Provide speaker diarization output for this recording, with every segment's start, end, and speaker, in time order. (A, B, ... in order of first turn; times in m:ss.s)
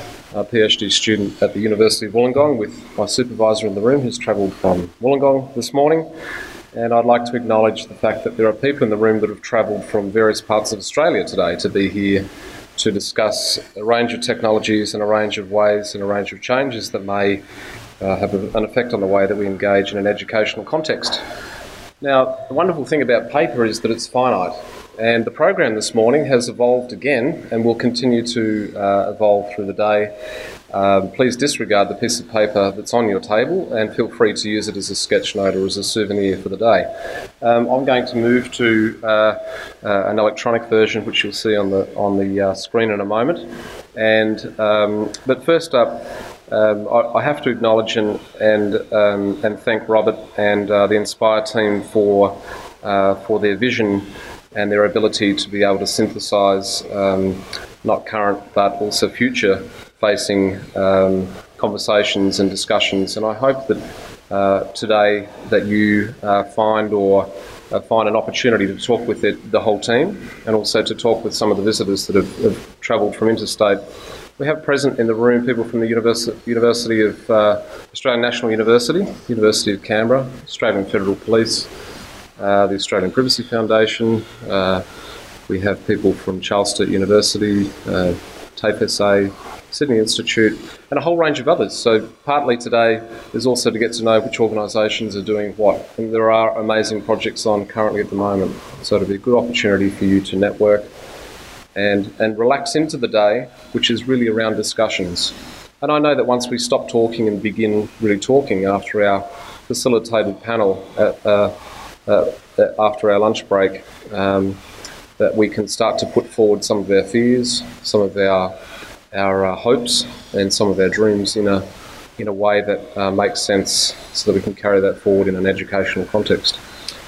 0:00.3-0:06.1 A
0:06.7-0:12.2 A
0:12.8-0:17.4 A
0:18.0-0:21.2 A
0:22.0-0:30.1 A
0:30.7-0:36.9 A
0:37.4-0:43.4 A
0:44.0-1:13.8 A
1:14.4-1:21.7 A
1:22.4-1:24.8 A
1:25.5-1:40.9 A
1:41.7-1:51.5 A
1:52.1-1:54.6 A
1:55.2-1:58.5 A
1:59.1-2:01.6 A
2:02.2-2:06.6 A